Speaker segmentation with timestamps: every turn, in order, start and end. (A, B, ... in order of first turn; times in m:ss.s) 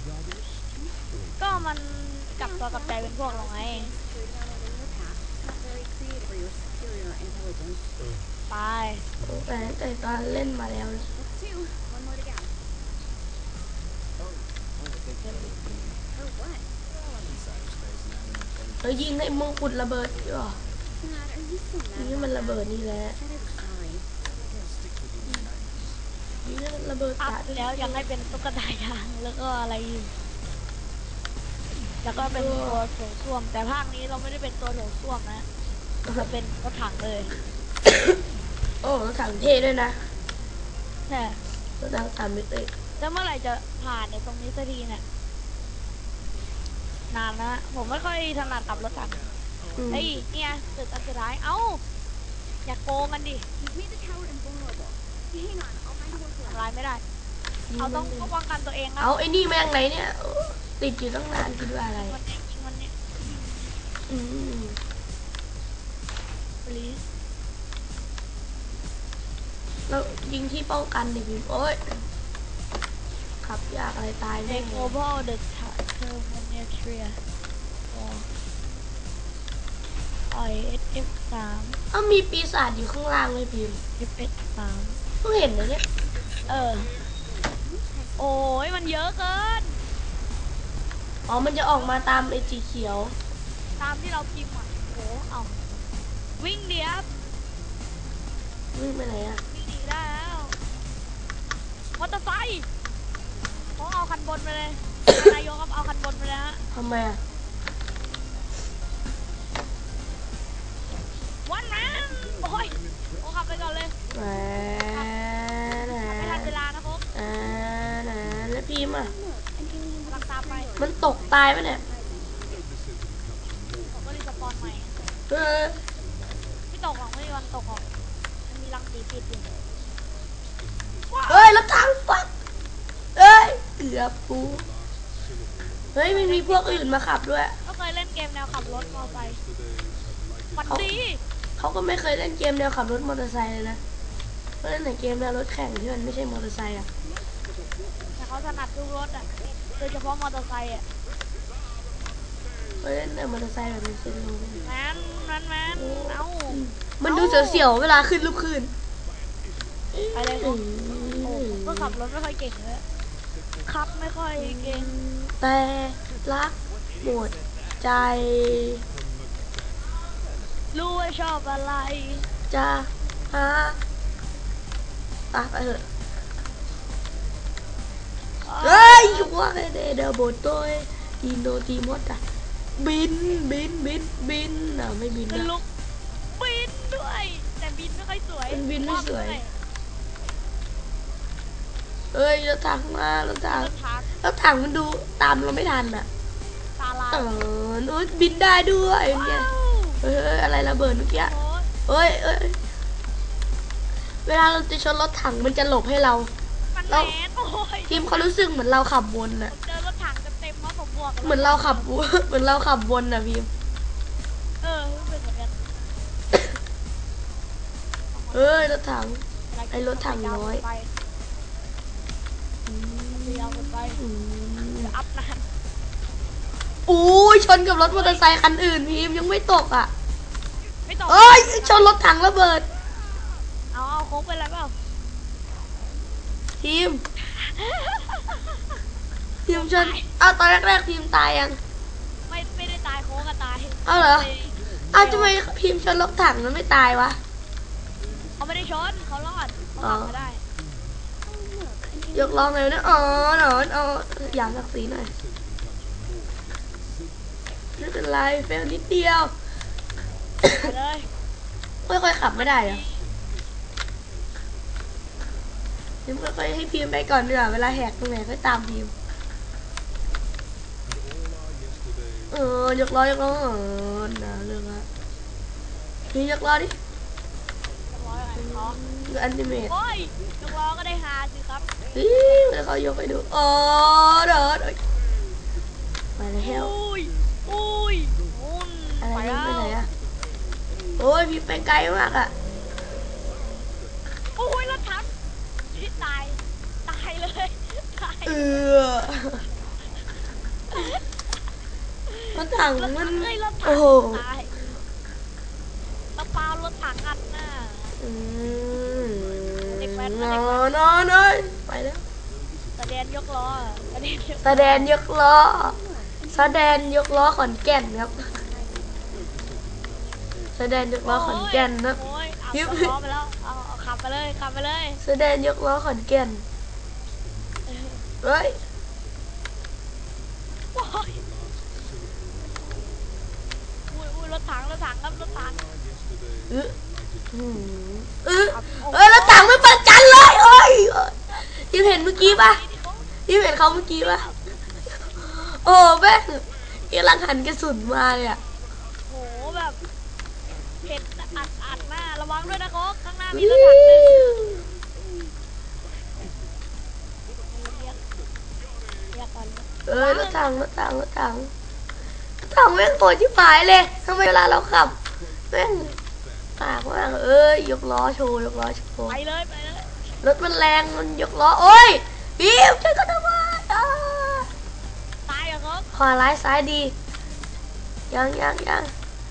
0:01.4-0:03.9 A
0:03.9-0:05.7 B
0:08.5-0:09.0 A
0:09.2-0:11.1 C
0:11.7-0:12.2 B
0:15.2-0:15.5 A
0:18.8-0:20.6 C
0:21.8-0:22.4 B
0:21.9-0:23.2 C
0:23.5-0:24.0 B
0:26.4-0:28.0 C
0:27.2-0:30.1 A
0:32.0-0:35.4 A
0:32.2-0:32.8 C
0:36.1-0:37.3 A
0:38.8-0:40.0 C
0:41.1-0:41.4 A
0:41.8-0:42.7 C
0:43.0-0:45.0 A
0:47.1-0:49.2 A
0:49.8-0:50.1 C
0:49.9-0:51.8 A
0:52.6-0:53.4 A
0:53.7-0:56.4 B
0:56.5-0:57.0 A
0:57.7-0:58.3 C
0:57.8-0:59.1 A
0:59.0-1:02.2 C
1:01.9-1:03.6 A
1:04.1-1:04.8 C
1:06.6-1:07.0 A
1:09.9-1:11.8 C
1:13.4-1:14.9 C
1:14.4-1:17.2 A
1:17.9-1:18.3 A
1:20.3-1:21.8 A
1:21.9-1:23.8 C
1:24.0-1:25.0 A
1:25.2-1:25.8 C
1:26.4-1:26.9 A
1:28.2-1:29.8 A
1:31.3-1:33.2 C
1:33.8-1:35.6 A
1:36.4-1:37.1 A
1:38.7-1:39.4 C
1:39.5-1:40.6 A
1:42.0-1:42.6 A
1:43.8-1:46.6 A
1:46.7-1:47.2 C
1:51.4-1:53.9 A
1:54.1-1:56.5 C
1:55.9-1:57.0 A
1:57.1-1:59.1 C
1:59.4-2:02.4 B
2:00.1-2:00.7 A
2:00.8-2:01.8 C
2:03.9-2:05.0 A
2:05.3-2:05.8 C
2:06.7-2:07.8 A
2:08.5-2:09.5 A
2:11.1-2:11.5 A
2:11.3-2:12.3 C
2:13.2-2:14.6 C
2:15.9-2:17.5 C
2:16.0-2:16.9 A
2:17.6-2:19.4 A
2:20.5-2:21.2 A
2:20.6-2:20.9 C
2:21.6-2:23.8 C
2:24.6-2:26.9 C
2:28.2-2:30.8 A
2:32.8-2:34.6 C
2:34.6-2:37.7 A
2:35.7-2:38.7 C
2:39.9-2:42.0 C
2:40.1-2:40.6 A
2:41.2-2:42.8 A
2:43.6-2:44.9 A
2:44.4-2:48.8 C
2:50.7-2:52.2 A
2:52.5-2:53.8 C
2:55.3-2:55.8 C
2:58.4-2:59.3 A
2:58.6-3:02.2 C
3:02.8-3:05.5 C
3:05.3-3:05.6 A
3:06.3-3:09.5 A
3:08.5-3:09.4 C
3:12.1-3:16.1 C
3:13.4-3:14.1 A
3:16.8-3:17.4 A
3:17.1-3:19.5 C
3:19.1-3:20.0 A
3:20.0-3:21.3 C
3:21.1-3:21.7 A
3:21.9-3:22.6 C
3:24.2-3:26.3 C
3:26.7-3:28.3 A
3:27.9-3:29.5 C
3:29.5-3:31.9 A
3:31.2-3:33.5 C
3:34.6-3:35.6 A
3:38.1-3:38.7 A
3:38.3-3:40.6 C
3:39.5-3:40.9 A
3:42.6-3:44.9 C
3:43.1-3:44.0 A
3:44.8-3:45.4 A
3:46.9-3:49.9 C
3:47.8-3:48.2 A
3:50.8-3:52.0 A
3:51.1-3:52.6 C
3:53.7-3:54.7 A
3:56.6-3:57.0 C
3:57.2-3:58.6 A
3:59.5-4:01.6 C
3:59.5-4:00.1 A
4:02.3-4:05.4 A
4:03.9-4:04.3 C
4:04.9-4:07.2 C
4:08.4-4:10.4 A
4:09.8-4:10.1 C
4:11.3-4:12.6 B
4:12.1-4:15.1 C
4:17.8-4:19.3 C
4:20.4-4:20.7 C
4:20.6-4:21.1 A
4:21.9-4:22.8 C
4:22.3-4:23.0 A
4:26.0-4:28.9 C
4:32.3-4:34.9 C
4:36.1-4:36.7 C
4:37.9-4:38.8 A
4:38.4-4:39.7 C
4:39.6-4:41.6 A
4:41.9-4:44.8 C
4:46.2-4:46.8 C
4:46.4-4:49.8 A
4:49.0-4:49.9 C
4:51.0-4:52.3 C
4:54.4-4:55.1 A
4:55.7-4:58.6 A
4:58.2-4:59.4 C
5:00.7-5:01.0 A
5:02.1-5:04.6 A
5:02.4-5:04.2 C
5:06.2-5:08.0 A
5:08.0-5:12.0 C
5:09.6-5:10.7 A
5:12.8-5:14.9 A
5:14.4-5:15.8 C
5:15.8-5:16.9 B
5:16.3-5:18.3 C
5:20.5-5:22.0 C
5:21.0-5:25.0 A
5:22.5-5:22.9 C
5:25.0-5:26.4 C
5:27.6-5:28.0 A
5:28.2-5:28.6 C
5:30.7-5:31.2 A
5:33.9-5:35.6 A
5:36.5-5:36.8 C
5:37.3-5:42.6 C
5:38.5-5:39.5 A
5:42.2-5:43.1 A
5:43.3-5:44.3 C
5:44.0-5:44.5 A
5:45.1-5:48.4 C
5:49.1-5:49.8 A
5:50.8-5:54.2 A
5:53.3-5:54.6 C
5:57.4-5:58.0 A
5:59.1-6:00.4 A
5:59.9-6:01.5 C
6:02.4-6:05.0 C
6:05.5-6:06.0 C
6:06.6-6:09.2 C
6:09.1-6:09.9 A
6:10.2-6:14.5 C
6:15.2-6:15.9 A
6:15.9-6:16.9 C
6:18.1-6:18.9 C